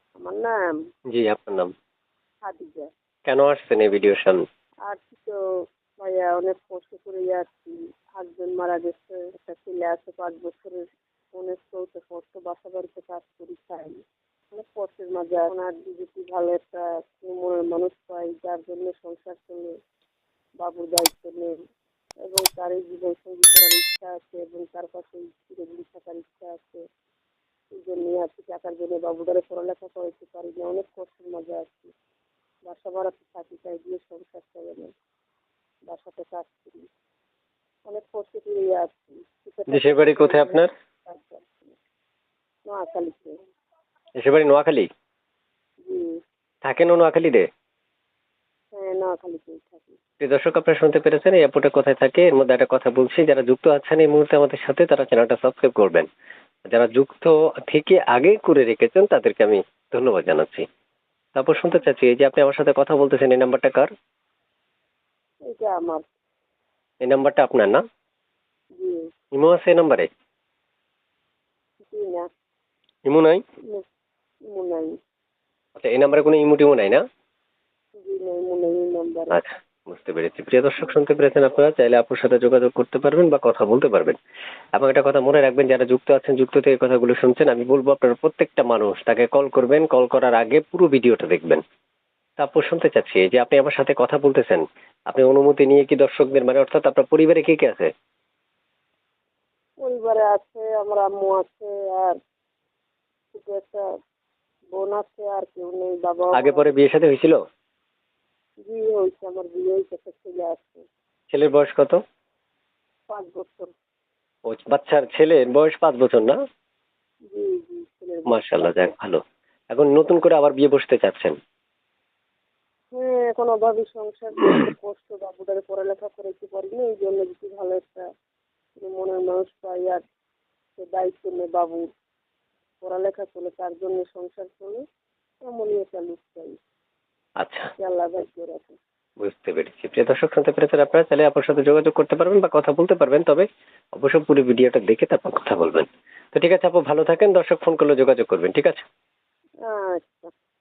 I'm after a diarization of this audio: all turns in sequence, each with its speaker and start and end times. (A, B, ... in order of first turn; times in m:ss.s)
0:00.2-0:00.8 A
0:01.1-0:01.7 B
0:02.4-0:02.9 A
0:03.3-0:04.4 B
0:04.8-0:05.4 A
0:06.0-0:14.0 A
0:14.5-0:19.7 A
0:20.6-0:21.6 A
0:22.2-0:26.8 A
0:27.7-0:31.9 A
0:32.6-0:34.9 A
0:35.9-0:36.8 A
0:37.9-0:41.7 A
0:39.7-0:40.7 B
0:42.6-0:43.4 A
0:44.2-0:44.9 B
0:45.8-0:46.2 A
0:46.6-0:47.5 B
0:48.7-0:50.0 A
0:50.2-0:56.1 B
0:56.7-1:00.6 B
1:01.3-1:03.9 B
1:05.5-1:06.0 A
1:07.0-1:07.8 B
1:08.8-1:09.1 A
1:09.3-1:10.1 B
1:11.8-1:12.3 A
1:13.1-1:13.4 B
1:14.5-1:14.9 A
1:15.8-1:17.0 B
1:18.0-1:19.4 A
1:19.3-1:24.2 B
1:24.7-1:31.6 B
1:32.4-1:37.9 B
1:39.8-1:42.2 A
1:43.3-1:43.8 A
1:44.7-1:46.8 A
1:46.3-1:47.4 B
1:48.6-1:50.8 A
1:51.3-1:52.0 B
1:53.1-1:53.7 A
1:54.5-1:56.4 B
1:57.3-1:58.9 A
1:58.3-1:59.2 B
1:59.7-2:01.3 B
2:02.9-2:08.0 A
2:08.8-2:10.0 A
2:10.8-2:11.9 A
2:12.8-2:14.8 A
2:15.4-2:16.6 A
2:17.4-2:17.7 B
2:17.8-2:18.8 A
2:19.2-2:28.8 B
2:29.6-2:30.3 A